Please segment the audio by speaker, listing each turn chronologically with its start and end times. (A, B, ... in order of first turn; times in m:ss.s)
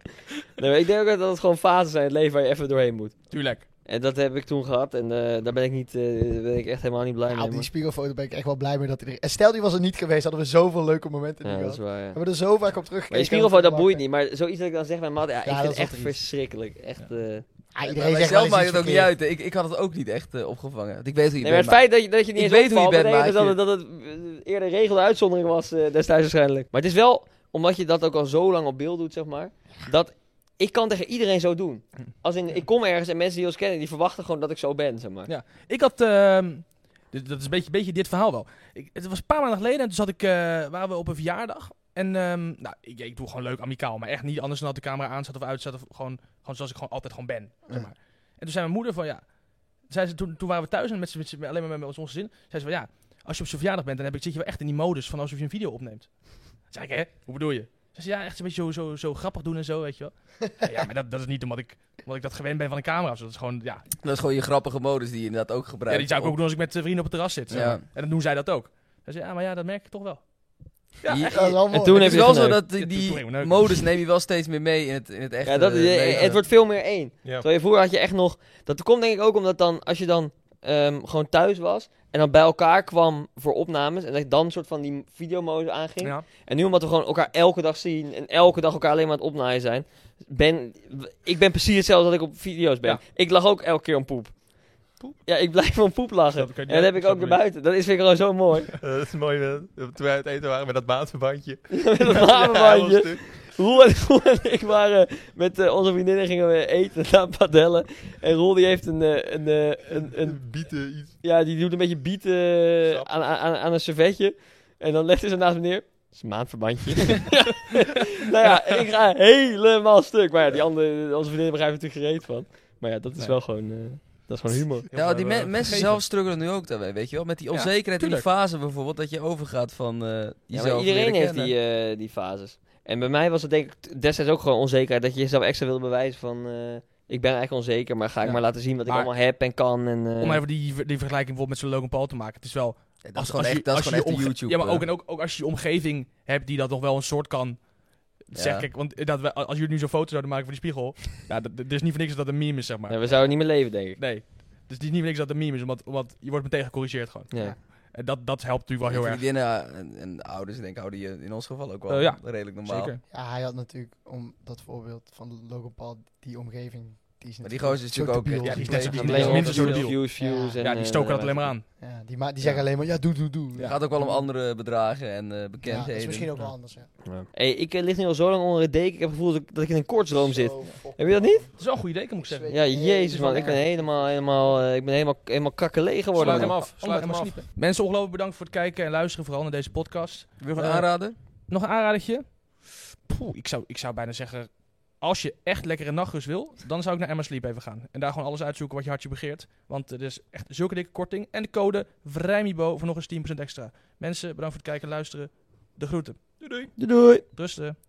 0:00.6-0:07.7 A
0:03.3-0:03.7 B
0:07.3-0:14.0 C
0:11.4-0:12.4 A
0:13.1-0:17.5 A
0:15.4-0:16.2 C
0:17.7-0:19.1 C
0:17.9-0:23.6 D
0:21.4-0:35.3 A
0:35.3-1:03.9 B
1:04.0-1:06.4 D
1:05.9-1:11.3 B
1:07.5-1:07.8 D
1:11.1-1:16.4 D
1:11.3-1:12.3 C
1:11.7-1:12.6 A
1:12.7-1:13.8 B
1:15.4-1:38.7 A
1:26.0-1:26.3 B
1:36.3-1:37.4 B
1:38.8-1:43.4 E
1:41.7-1:50.4 A
1:50.0-1:51.2 E
1:51.2-2:04.9 A
1:52.8-1:53.1 E
2:04.9-2:06.0 B
2:04.9-2:11.5 D
2:07.5-2:08.3 B
2:10.5-2:20.4 A
2:20.2-2:39.2 B
2:23.0-2:24.8 D
2:28.4-2:28.7 D
2:32.9-2:34.0 A
2:37.3-2:37.6 A
2:38.9-2:43.0 D
2:41.9-2:43.0 B
2:43.1-2:50.6 C
2:47.4-2:49.9 D
2:48.4-2:50.1 B
2:48.9-2:51.6 A
2:50.6-2:51.6 B
2:51.8-2:54.3 C
2:53.6-2:53.8 B
2:53.6-2:56.5 D
2:55.6-2:56.9 C
2:57.0-3:01.4 A
3:00.1-3:04.2 C
3:01.6-3:02.8 B
3:02.5-3:06.6 A
3:03.3-3:03.6 B
3:06.2-3:07.4 E
3:06.2-3:27.8 B
3:10.4-3:11.2 D
3:26.4-3:26.7 E
3:26.8-3:27.2 A